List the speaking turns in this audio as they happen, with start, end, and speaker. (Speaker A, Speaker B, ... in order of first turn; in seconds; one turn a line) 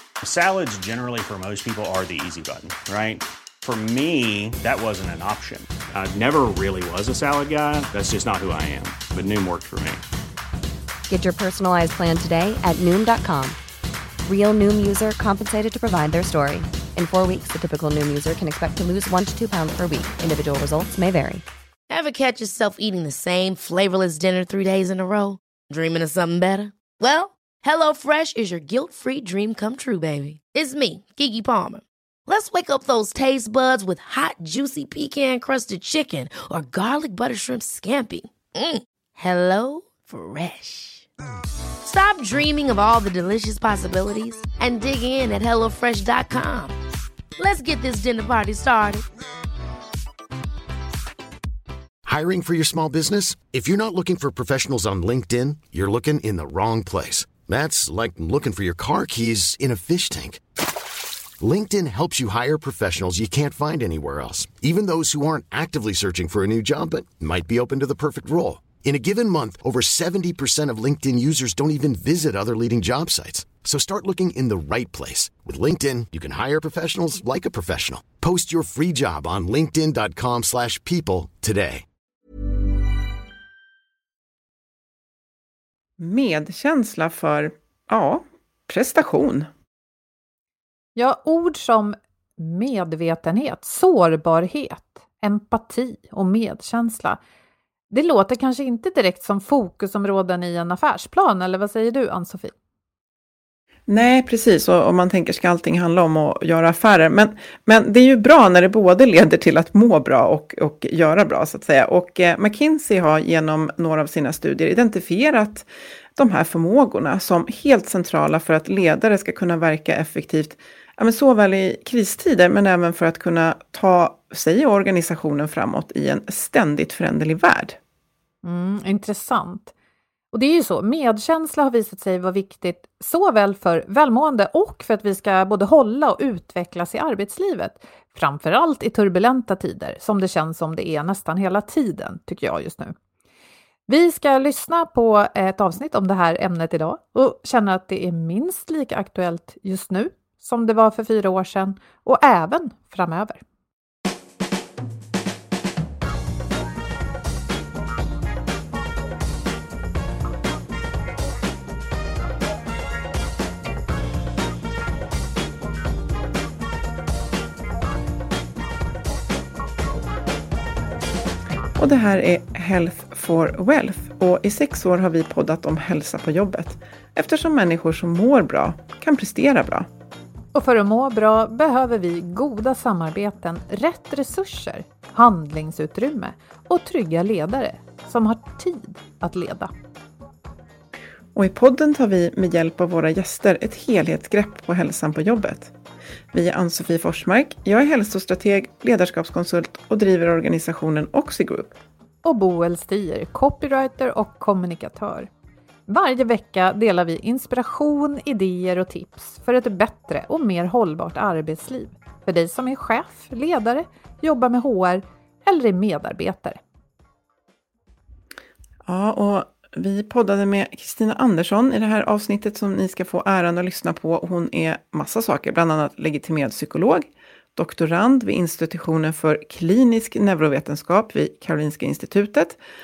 Speaker A: 0.2-10.0
Speaker B: 11.1-13.6
Speaker B: 14.3-21.4
Speaker C: 21.9-41.1
Speaker C: 41.8-46.8
Speaker C: 47.4-49.0
Speaker D: 52.0-60.4
Speaker D: 61.4-81.8
Speaker E: 86.0-89.5
Speaker F: 91.0-97.2
Speaker F: 97.9-102.5
Speaker E: 103.9-127.8
Speaker F: 128.4-129.7
Speaker F: 130.3-143.0
Speaker F: 143.9-153.4
Speaker E: 171.8-179.9
Speaker F: 180.5-189.7
Speaker E: 191.3-195.7
Speaker E: 196.3-201.8
Speaker F: 202.2-205.3
Speaker F: 205.9-216.6
Speaker E: 218.9-232.6